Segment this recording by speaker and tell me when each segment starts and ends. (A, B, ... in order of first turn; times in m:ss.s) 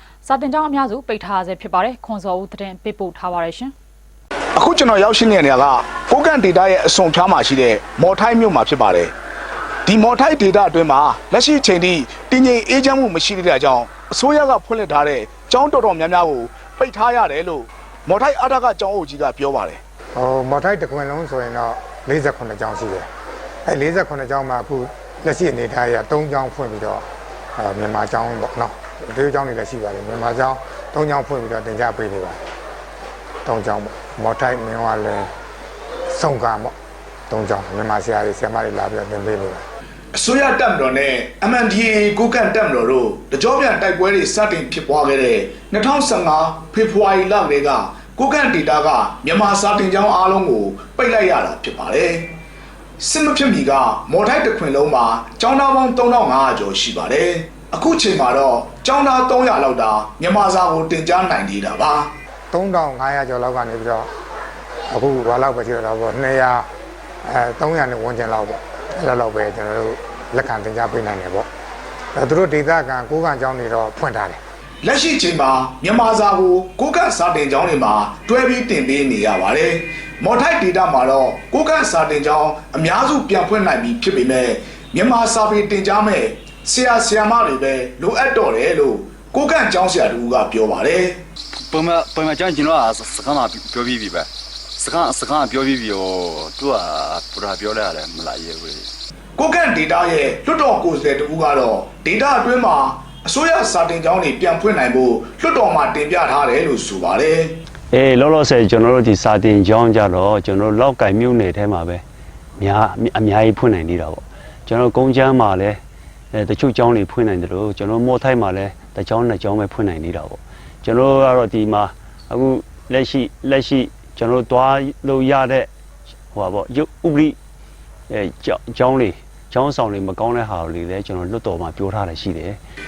0:00.2-0:03.7 A
0:04.6-0:09.1 B
0:09.9-0:19.8 B
0:20.2-0:23.1 C
0:23.7-0:27.0 C
0:27.6-0:32.4 C
0:33.4-0:35.3 C
0:36.1-0:36.8 C
0:37.3-0:39.6 C
0:40.1-0:52.3 B
0:53.0-1:02.1 B
1:02.5-1:04.1 C
1:04.9-1:06.7 C
1:07.2-1:11.5 C
1:12.2-1:14.4 C
1:14.8-1:31.2 B
1:31.6-1:38.9 D
1:39.4-1:47.6 B
1:47.9-1:52.0 E
1:48.5-1:48.8 D
1:52.6-1:55.8 E
1:56.3-2:05.7 E
2:03.1-2:03.4 D
2:06.3-2:07.4 E
2:08.1-2:12.6 E